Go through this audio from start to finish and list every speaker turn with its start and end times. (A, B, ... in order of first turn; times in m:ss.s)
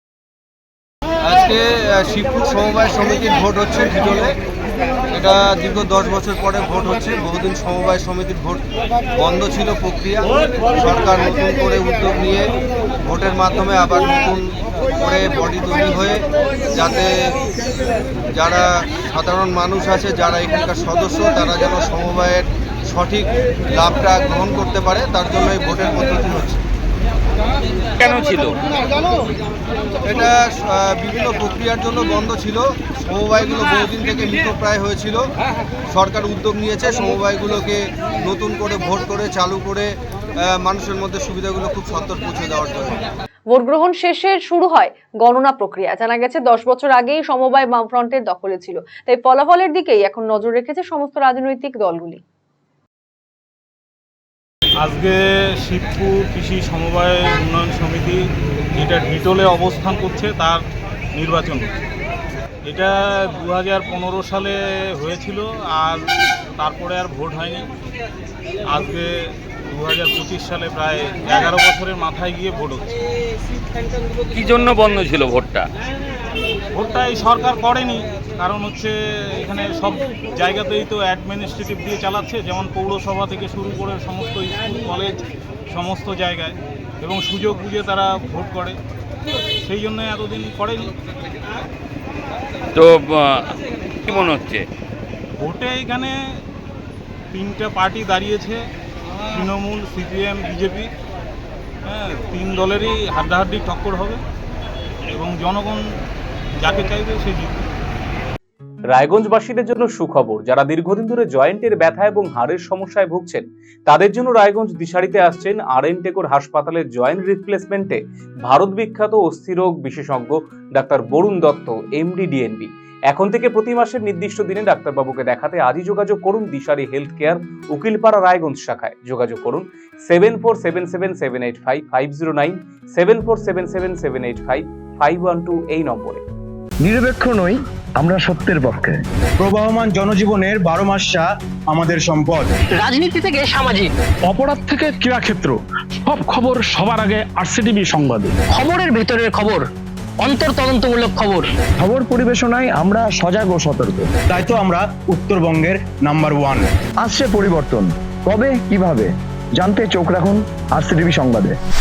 0:01.2-0:04.4 A
0:05.1-0:08.6 A
0:09.1-0:12.5 A
0:13.0-0:17.4 A
0:18.3-0:26.6 A
0:28.0-0:28.6 B
0:30.0-0:35.2 A
0:35.9-0:43.0 A
0:43.5-0:52.2 C
0:54.8-1:00.6 D
1:01.1-1:01.7 D
1:02.7-1:07.7 D
1:08.7-1:12.9 D
1:14.3-1:15.7 B
1:16.7-1:28.8 D
1:29.7-1:30.9 D
1:32.8-1:34.7 B
1:35.4-1:36.2 D
1:37.3-1:38.6 D
1:39.3-1:40.9 D
1:41.9-1:44.2 D
1:45.1-1:45.8 D
1:46.6-1:47.6 D
1:48.9-2:16.2 E
2:16.8-2:19.0 F
2:19.4-2:22.5 G
2:22.7-2:23.9 H
2:24.2-2:28.4 I
2:28.5-2:29.6 H
2:30.2-2:31.4 H
2:31.8-2:34.1 F
2:34.3-2:36.7 G
2:37.0-2:41.6 F